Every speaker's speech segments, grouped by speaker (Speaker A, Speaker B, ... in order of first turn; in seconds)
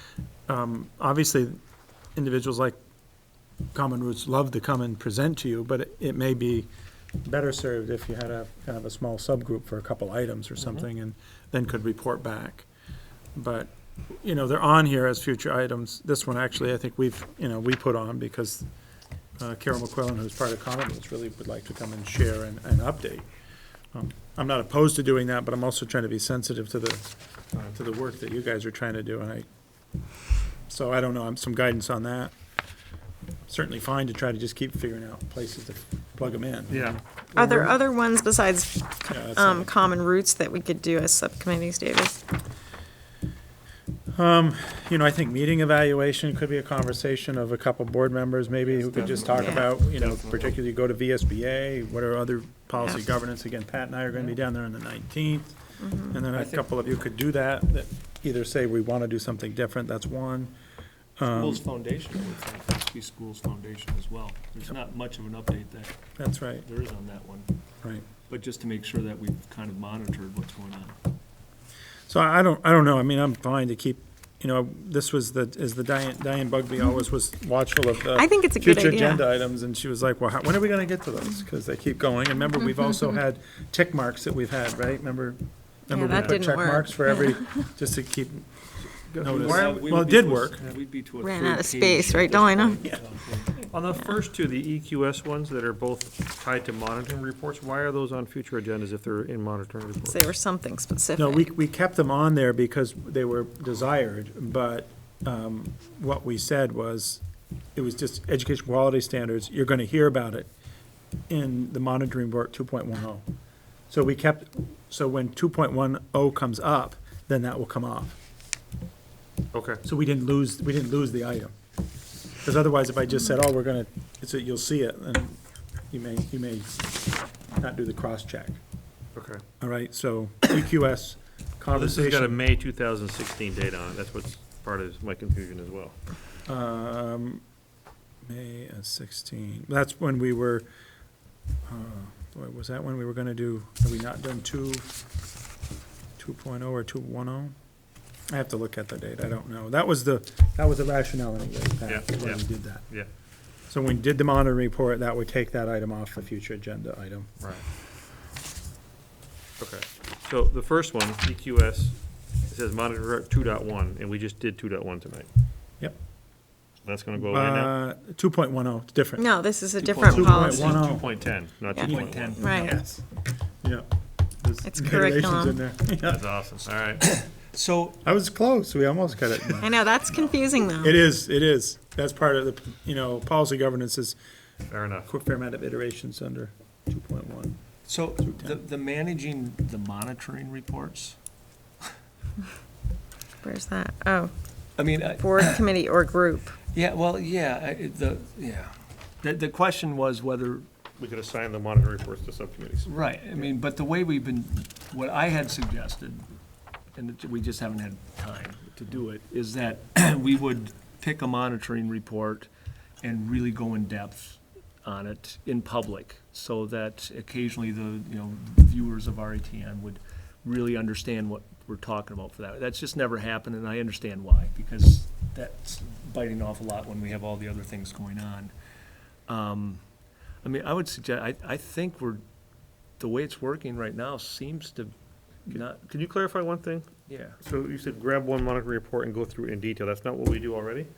Speaker A: 0.5-1.6, 2.2-2.8, 3.7-6.7, 7.2-12.7, 13.3-18.7, 19.4-23.3, 23.9-29.5, 30.7-32.3, 33.5-37.7, 39.1-39.8, 44.1-55.6, 56.1-60.5, 61.2-61.6, 66.2-66.7, 72.1-88.5, 89.2-90.7, 101.2-107.2, 107.8-110.5, 111.3-113.2, 113.9-118.2, 119.8-121.5, 122.4-125.4, 125.9-126.9, 127.6-128.6, 129.6-132.4, 136.5-137.4, 138.2-140.7, 141.7-144.9, 146.2-147.6, 148.3-152.9, 153.7-157.3, 167.3-169.3, 170.0-171.1, 172.5-173.0, 173.6-173.9, 174.4-176.3, 178.0-179.8, 180.8-184.2, 185.1-187.6, 188.2-188.6
Speaker B: 36.7-37.0, 48.9-50.5, 86.1-86.4, 89.2-89.8, 93.6-100.3, 119.5-119.8, 129.2-129.4, 131.7-136.0, 151.9-153.1, 159.6-165.3, 166.8-167.7, 170.6-172.4, 176.0-177.0, 184.7-185.1, 201.0-203.5, 235.5-236.9, 237.4-240.9
Speaker C: 37.4-42.2, 49.3-49.7, 55.8-56.2, 78.2-79.3, 85.9-87.4, 91.2-92.9, 100.0-101.5, 169.2-170.9, 171.8-172.8, 174.7-175.6, 179.6-181.0, 193.4-194.3, 195.2-196.6
Speaker D: 48.9-49.6, 56.3-56.7, 61.3-66.0, 66.6-67.5, 68.3-71.0, 89.2-93.5, 169.8-171.0, 171.8-172.7, 177.0-178.0, 187.9-191.2, 194.8-195.6, 196.7-200.7, 202.9-206.3, 206.9-212.5, 213.0-228.5, 229.3-229.8, 230.4-232.2, 233.0-234.9, 235.5-235.8, 237.1-237.4